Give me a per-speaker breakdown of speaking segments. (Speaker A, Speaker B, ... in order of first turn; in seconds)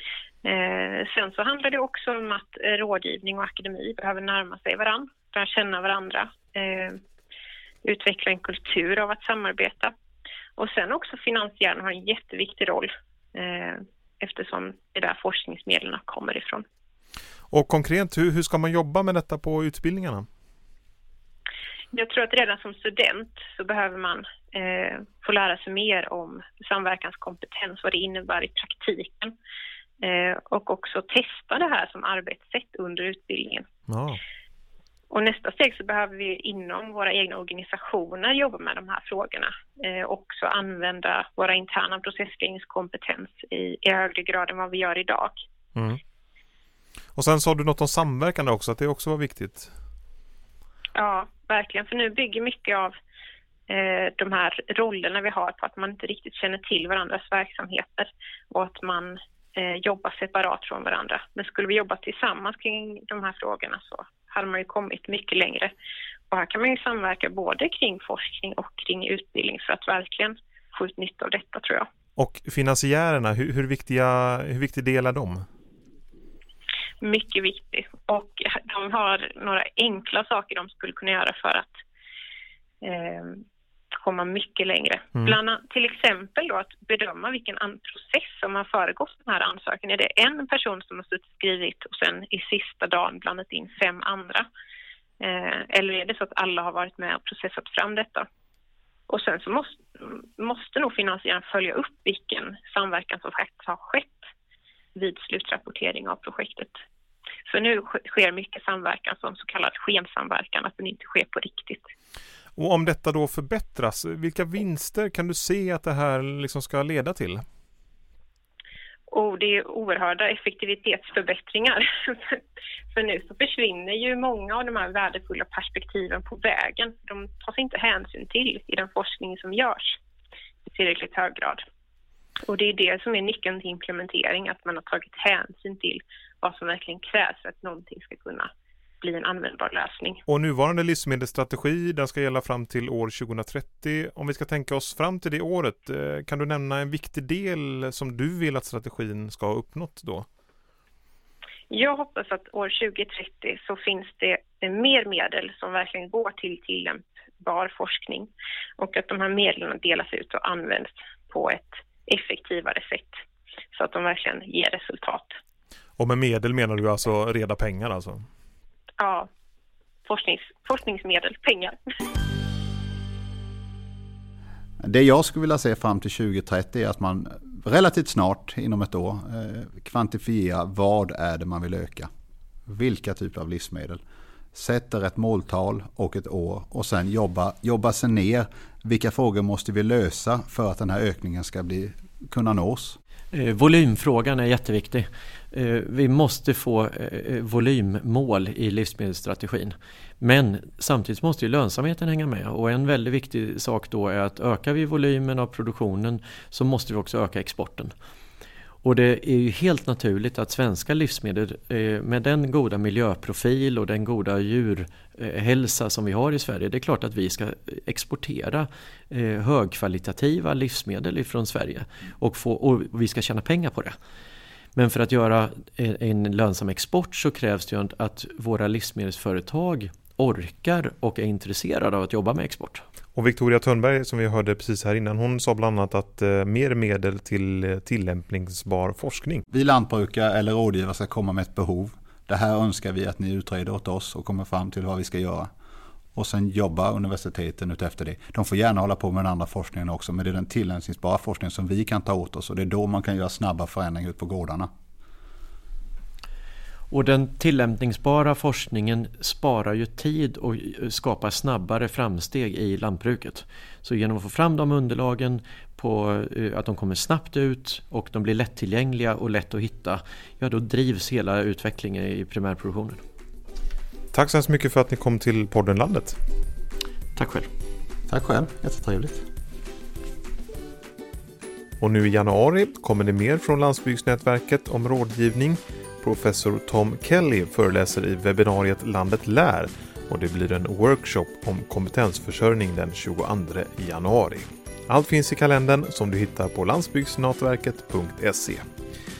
Speaker A: 0.4-7.0, 7.8-9.9, 10.6-16.6, 21.9-29.3, 30.0-33.7, 35.1-45.4, 50.9-53.0, 53.7-65.7, 66.3-71.9, 77.0-81.8, 82.8-94.5, 95.2-98.3, 99.1-104.2, 104.9-106.8, 107.5-111.9, 119.1-122.4, 122.9-130.0, 130.7-131.6, 132.4-138.5, 139.0-140.2, 151.7-163.2, 163.7-165.4, 169.0-169.3, 170.1-171.8
Speaker B: 17.5-20.2, 33.9-34.2, 47.1-49.7, 72.2-75.5, 112.6-117.4, 140.3-150.3, 166.0-168.2, 233.1-239.4, 274.1-276.2, 281.8-298.6
Speaker C: 174.8-182.1, 182.7-184.0, 184.5-193.0, 239.5-245.5, 246.1-254.7, 278.1-279.2
Speaker D: 193.3-207.9, 208.8-223.9, 224.7-232.8, 256.9-273.0, 277.1-277.5